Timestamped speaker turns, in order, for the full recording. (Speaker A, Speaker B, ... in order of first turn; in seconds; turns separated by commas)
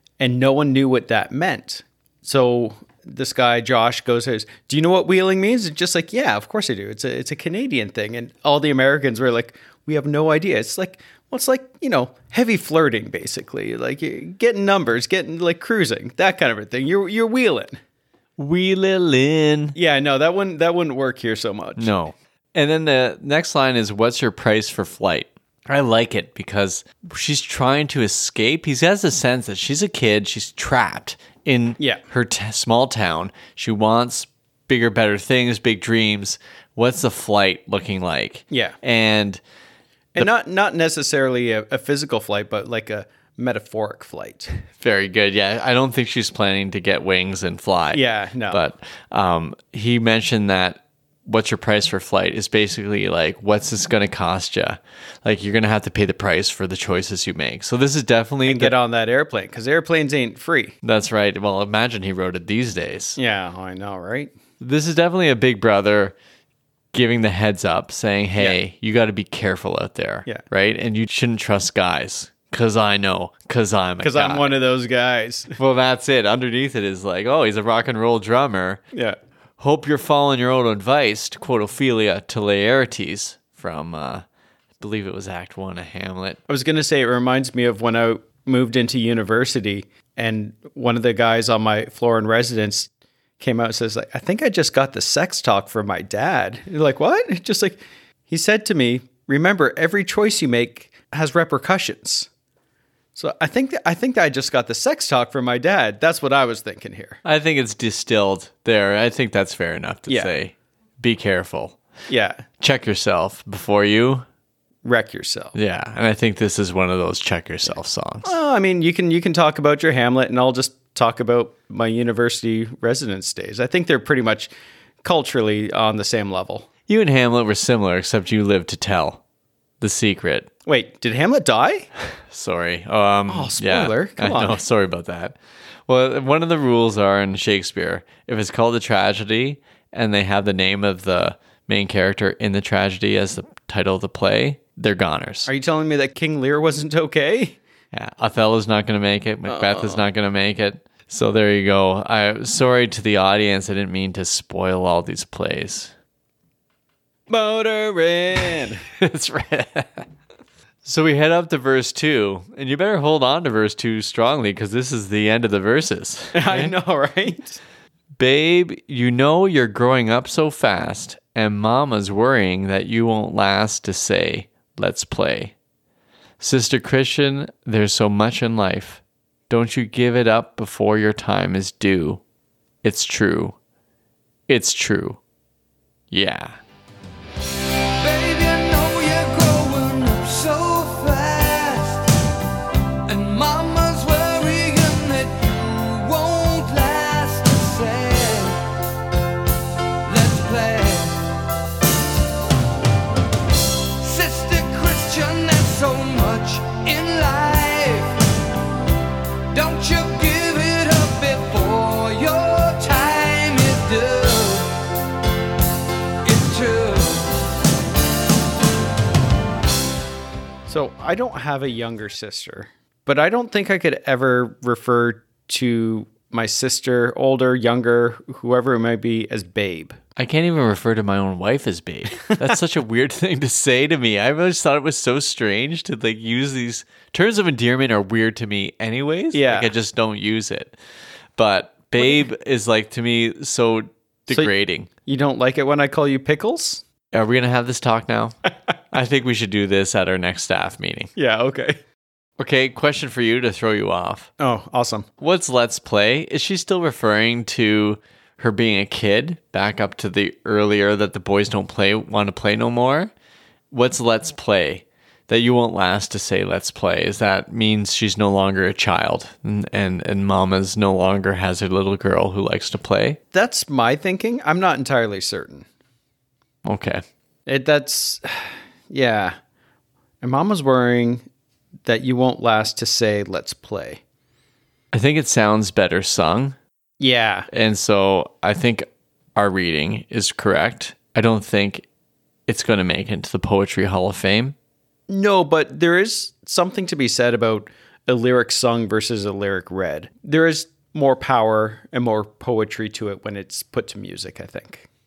Speaker A: 0.2-17.8, Speaker B: 18.4-19.8, Speaker A: 19.8-21.9, Speaker B: 21.8-39.4, Speaker A: 38.5-38.8, Speaker A: 40.1-44.5, Speaker B: 44.8-58.7, Speaker A: 47.9-48.6, Speaker A: 58.4-60.8, Speaker B: 60.8-63.2, Speaker A: 63.2-64.3, Speaker B: 64.6-66.2, Speaker B: 66.9-74.5, Speaker A: 74.0-75.5, Speaker B: 75.5-78.8, Speaker A: 78.9-79.2, Speaker B: 79.6-84.2, Speaker B: 84.8-86.4, Speaker A: 86.5-102.3, Speaker A: 103.1-107.2, Speaker B: 107.2-111.8, Speaker A: 110.1-110.3, Speaker A: 112.1-112.4, Speaker B: 112.6-114.2, Speaker A: 114.8-115.5, Speaker B: 115.5-118.3, Speaker A: 118.2-124.5, Speaker A: 125.0-126.7, Speaker B: 126.9-129.2, Speaker B: 129.8-130.5, Speaker A: 130.7-131.9, Speaker B: 132.3-145.5, Speaker A: 133.3-134.6, Speaker A: 145.5-147.6, Speaker B: 147.9-155.9, Speaker A: 149.5-150.0, Speaker A: 157.3-158.8, Speaker B: 158.8-160.1, Speaker B: 160.8-166.7, Speaker A: 166.3-167.6, Speaker B: 168.2-175.5, Speaker B: 176.4-182.2, Speaker B: 182.8-183.6, Speaker B: 184.5-185.2, Speaker B: 186.1-186.6, Speaker C: 188.0-192.1, Speaker C: 193.1-198.7, Speaker C: 200.0-201.3, Speaker C: 204.0-208.3, Speaker C: 209.5-214.8, Speaker C: 216.2-217.3, Speaker A: 220.7-230.0, Speaker B: 230.2-240.8, Speaker A: 232.2-232.6, Speaker A: 239.3-239.7, Speaker B: 241.4-244.9, Speaker A: 242.0-242.2, Speaker A: 245.0-246.8, Speaker B: 247.1-248.4, Speaker B: 248.9-251.1, Speaker A: 251.2-251.8, Speaker B: 252.4-254.3, Speaker A: 254.4-255.1, Speaker B: 255.2-263.1, Speaker B: 263.7-273.2, Speaker A: 273.3-275.6, Speaker B: 276.6-277.0, Speaker A: 277.5-279.4, Speaker A: 280.2-281.2, Speaker A: 281.8-284.0, Speaker B: 284.9-286.6, Speaker A: 287.0-287.5, Speaker B: 287.5-291.8, Speaker B: 292.5-294.5, Speaker A: 295.1-304.9